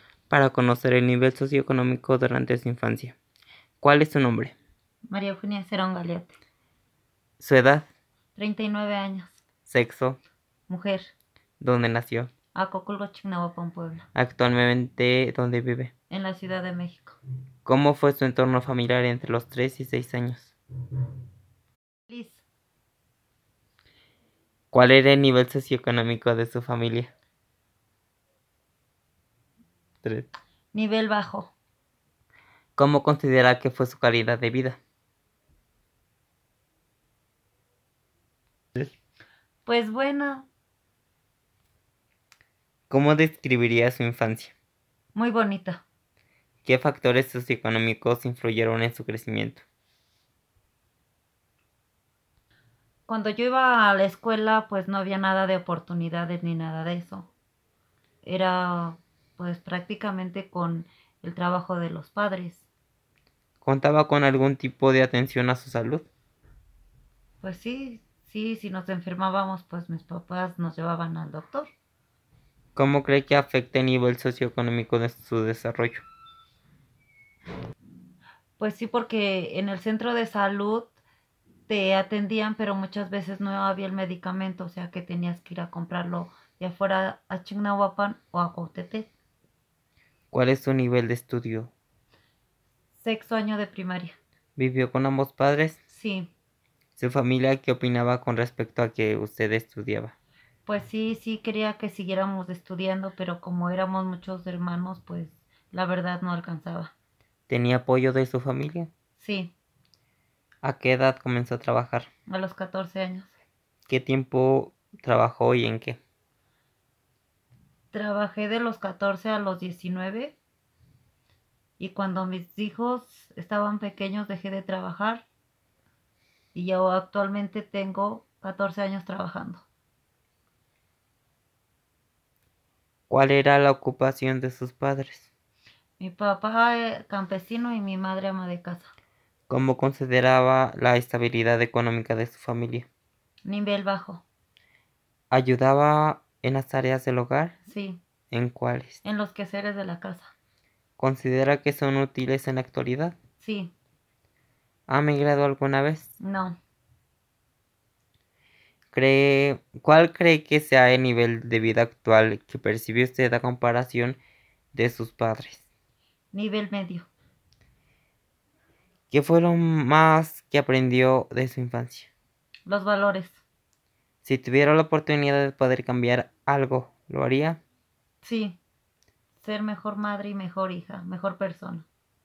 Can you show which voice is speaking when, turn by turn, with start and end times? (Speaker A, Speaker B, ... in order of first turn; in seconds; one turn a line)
Speaker A: 0.3-3.2
Speaker A: 3.8-4.5
Speaker B: 5.1-6.4
Speaker A: 7.4-7.9
Speaker B: 8.4-9.4
Speaker A: 9.7-10.2
Speaker B: 10.7-11.1
Speaker A: 11.6-12.3
Speaker B: 12.6-14.1
Speaker A: 14.2-15.9
Speaker B: 16.1-17.2
Speaker A: 17.6-20.6
Speaker B: 22.1-22.4
Speaker A: 24.7-27.1
Speaker B: 30.7-31.5
Speaker A: 32.8-34.8
Speaker B: 39.7-40.5
Speaker A: 42.9-44.5
Speaker B: 45.1-45.8
Speaker A: 46.6-49.6
Speaker B: 53.1-57.3
Speaker B: 58.2-62.6
Speaker A: 63.6-66.1
Speaker B: 67.4-71.7
Speaker A: 72.8-76.0
Speaker B: 78.6-80.9
Speaker B: 81.7-89.1
Speaker A: 90.3-91.7
Speaker B: 92.9-94.2
Speaker A: 94.6-95.8
Speaker B: 95.9-96.3
Speaker A: 97.0-100.2
Speaker B: 100.7-106.9
Speaker A: 107.5-108.9
Speaker B: 109.2-109.5
Speaker A: 110.6-112.1
Speaker B: 112.3-113.3
Speaker A: 113.9-116.0
Speaker B: 117.9-120.4
Speaker B: 121.8-125.2
Speaker B: 126.5-129.6
Speaker A: 133.1-135.3
Speaker B: 136.0-138.9
Speaker A: 139.5-142.9
Speaker B: 143.4-144.2
Speaker A: 145.3-147.6
Speaker B: 147.7-148.0
Speaker A: 148.3-149.0
Speaker B: 149.0-150.3
Speaker A: 151.0-153.2
Speaker B: 153.4-153.7
Speaker A: 154.9-156.1
Speaker B: 156.2-156.6
Speaker A: 158.9-164.2
Speaker A: 164.7-165.7
Speaker B: 166.3-167.1
Speaker A: 169.1-172.1
Speaker B: 172.7-173.4
Speaker A: 174.2-177.6
Speaker B: 178.2-178.6
Speaker B: 179.4-181.9